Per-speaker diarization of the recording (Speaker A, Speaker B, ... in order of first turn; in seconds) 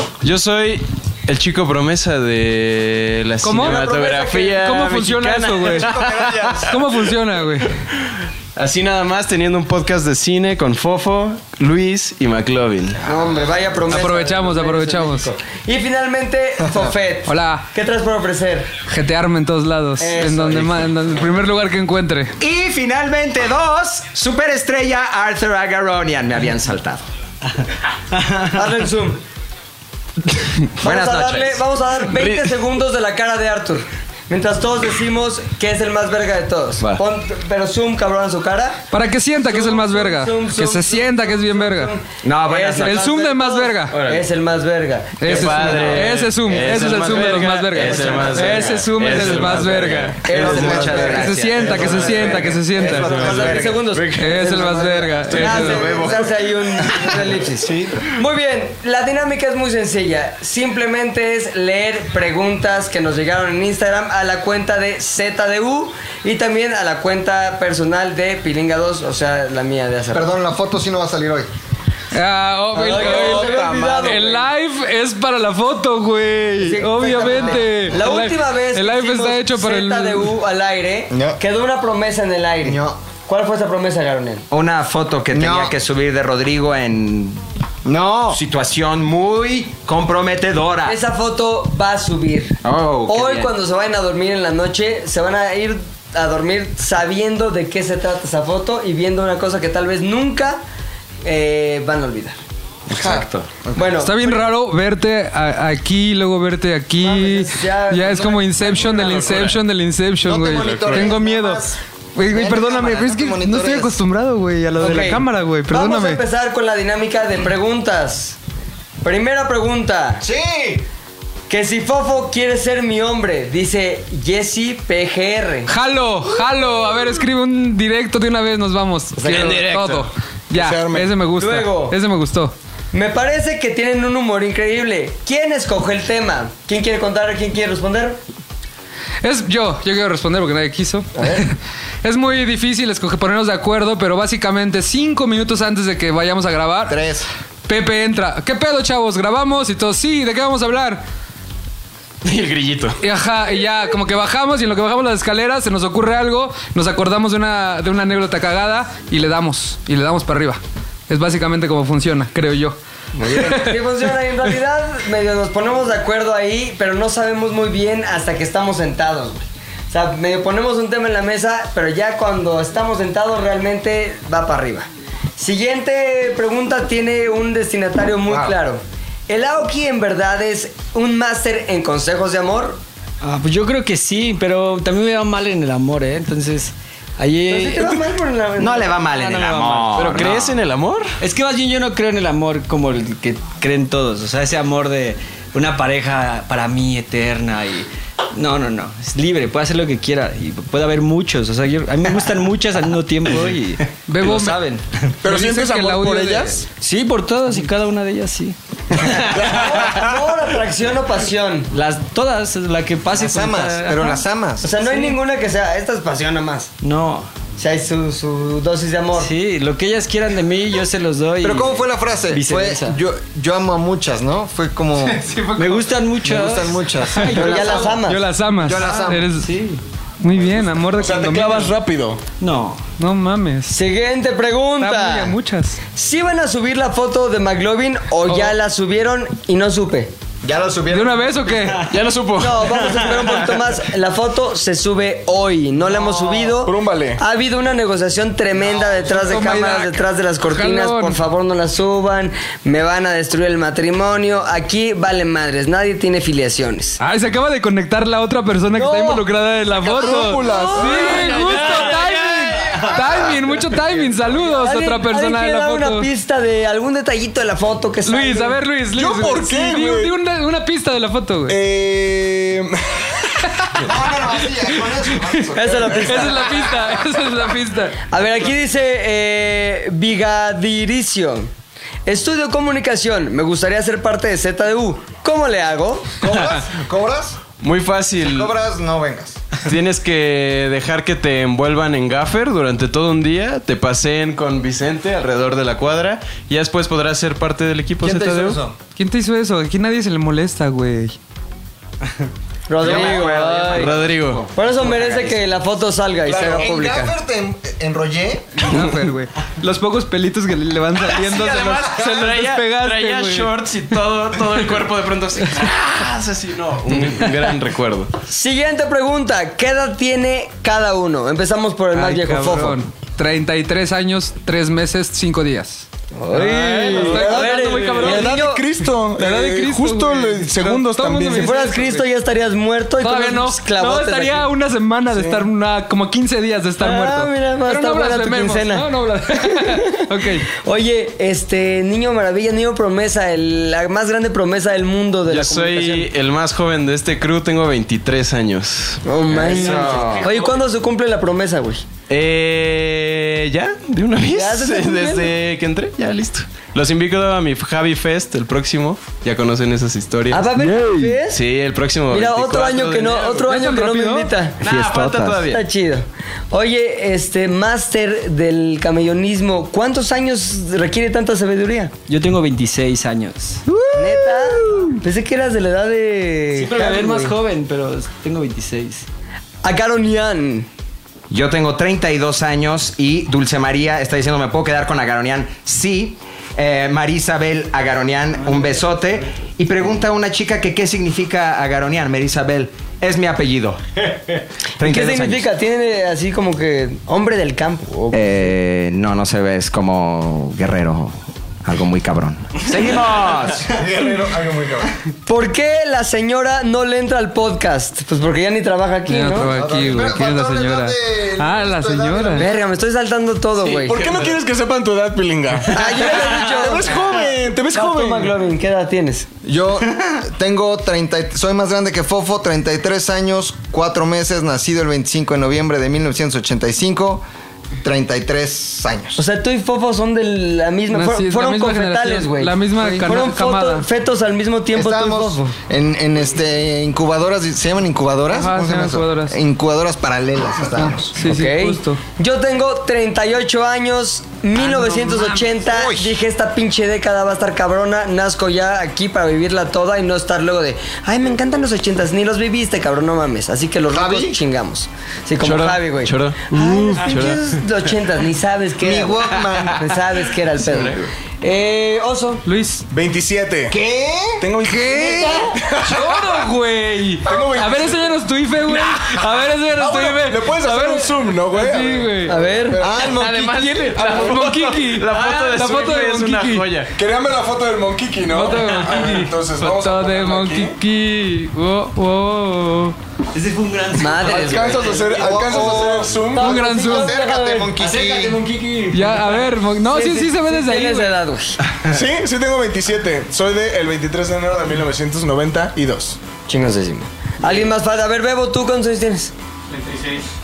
Speaker A: 0.2-6.3, 8.6-13.0, 32.1-32.5, 43.9-44.2, 45.2-50.8, 51.7-54.3, 55.3-56.2, 108.9-109.5, 110.7-110.9, 129.3-130.0, 152.2-153.0, 189.9-191.2, 241.8-243.0, 287.6-288.5, 289.6-298.6, 302.9-303.2, 303.7-304.5, 311.2-318.1, 345.3-350.2, 352.1-360.5, 361.2-363.4, 364.6-365.6, 455.4-457.6, 460.6-461.1, 473.2-476.9, 499.8-500.2
Speaker B: 3.4-5.9, 6.6-7.7, 13.9-15.3, 17.3-17.7, 18.9-22.4, 38.9-41.9, 42.8-44.0, 45.2-50.3, 51.0-53.4, 54.1-56.0, 72.1-80.3, 104.0-116.2, 125.7-132.5, 139.2-147.0, 147.7-151.0, 153.0-164.1, 204.1-204.7, 205.2-206.6, 225.0-226.0, 227.1-229.5, 230.2-231.7, 233.0-233.7, 234.8-235.8, 240.9-241.9, 249.1-251.2, 257.0-266.1, 268.1-271.6, 276.0-278.0, 298.9-301.2, 308.6-313.6, 321.9-328.4, 329.1-332.0, 333.0-340.4, 363.4-364.3, 409.1-412.5, 430.9-433.9, 438.3-439.4, 440.9-442.0, 444.6-445.4, 462.4-462.8, 465.9-472.3, 473.0-476.7, 478.3-482.9, 486.3-487.2, 488.9-491.1
Speaker C: 3.6-4.5, 13.0-18.7, 20.0-20.9, 28.5-29.2, 30.8-38.8, 39.4-46.2, 46.8-49.5, 50.2-70.3, 72.7-74.5, 76.6-84.5, 90.8-100.6, 101.2-102.4, 103.7-104.5, 107.0-109.1, 114.8-118.4, 119.0-120.2, 121.5-125.7, 129.2-129.7, 131.4-132.0, 132.9-138.2, 141.1-141.5, 163.2-182.8, 187.5-189.0, 209.4-211.7, 214.6-216.7, 217.6-219.3, 227.3-228.2, 233.7-235.3, 235.9-240.1, 242.4-257.0, 258.7-259.2, 260.4-263.2, 264.3-268.6, 275.5-276.6, 278.1-281.5, 282.1-286.2, 302.7-303.9, 304.5-307.1, 318.3-322.8, 326.1-328.6, 331.3-334.5, 336.8-346.1, 349.0-351.8, 354.3-355.3, 360.3-361.4, 362.1-364.6, 365.4-371.9, 373.9-377.4, 379.6-380.7, 394.8-398.5, 405.2-409.5, 412.4-414.1, 415.7-419.3, 429.1-435.5, 441.1-462.4, 472.3-472.8, 484.0-485.0, 486.2-487.8, 489.8-491.6, 496.5-499.3
Speaker D: 5.6-6.8, 50.3-51.2, 55.8-56.3, 70.1-71.5, 81.1-81.4, 82.6-83.0, 85.3-85.7, 87.8-88.4, 102.9-103.9, 110.2-114.0, 120.2-120.8, 146.9-147.3, 178.3-178.5, 213.1-214.7, 221.4-225.2, 226.2-227.9, 228.6-229.3, 240.4-241.4, 273.8-276.4, 286.2-287.4, 288.2-289.4, 298.0-298.7, 306.2-308.7, 403.7-404.9, 409.5-412.5, 419.4-427.2, 427.8-429.2, 434.7-441.1, 445.7-446.1, 453.9-454.4, 458.8-459.9, 463.7-465.5, 472.8-473.9, 485.1-488.4
Speaker E: 22.4-27.0, 30.8-31.6, 42.2-43.0, 50.3-53.8, 84.5-87.4, 88.3-91.0, 92.6-93.5, 102.9-103.5, 188.6-190.6, 302.8-305.4, 349.4-350.3, 364.7-365.3, 381.3-394.2, 394.8-395.5, 398.1-403.8
Speaker F: 28.1-28.6, 183.2-188.0, 189.1-190.6, 191.2-205.1, 206.8-209.7, 211.7-214.2, 214.8-215.2, 216.8-217.3, 219.1-223.0, 225.6-228.1, 229.4-229.8, 232.4-232.8, 242.6-243.3, 349.6-350.4, 364.9-365.3, 372.1-374.9, 376.5-379.1, 483.3-485.6, 487.8-489.4
Speaker G: 72.7-74.1, 130.5-131.1, 205.2-206.7, 209.3-210.0, 230.4-232.2, 246.5-247.2, 259.7-262.1, 268.9-270.1, 271.5-273.8, 275.8-276.2, 326.4-331.5, 335.1-335.4, 413.6-418.4, 462.9-463.8, 464.4-466.1, 467.2-468.1, 469.7-473.0, 473.9-474.4, 476.9-480.8, 484.2-486.6, 491.9-496.2